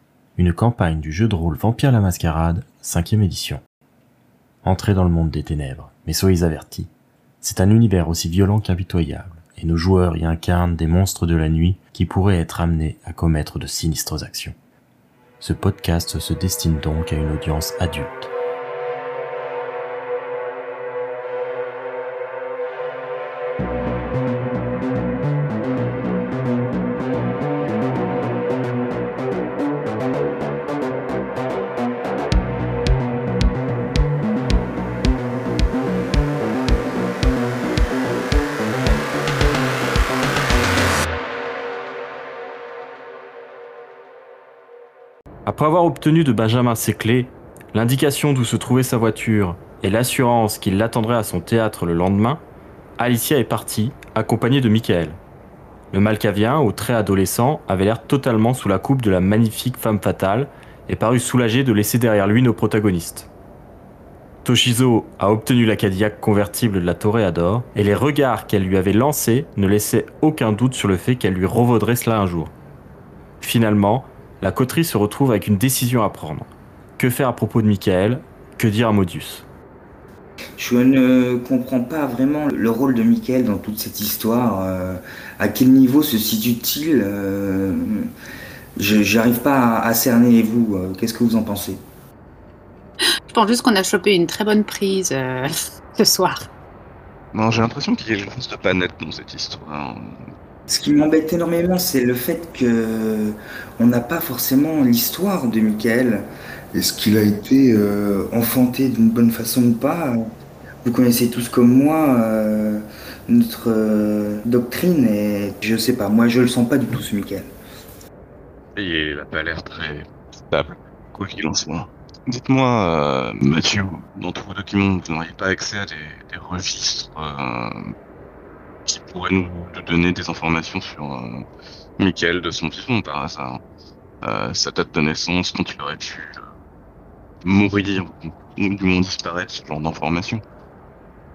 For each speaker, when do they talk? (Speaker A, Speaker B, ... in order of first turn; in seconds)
Speaker A: 0.3-3.6, 4.6-6.9, 7.4-14.6, 15.4-18.3
Speaker B: 45.5-52.4, 53.0-55.2, 55.9-63.3, 64.4-72.5, 73.4-76.5, 77.0-79.4
Speaker C: 80.6-88.1, 88.8-91.8, 100.7-110.2, 110.8-117.5
Speaker D: 93.3-96.5
Speaker E: 97.3-100.2, 118.8-127.9, 128.8-131.4, 132.0-133.6, 134.2-136.5, 137.4-140.4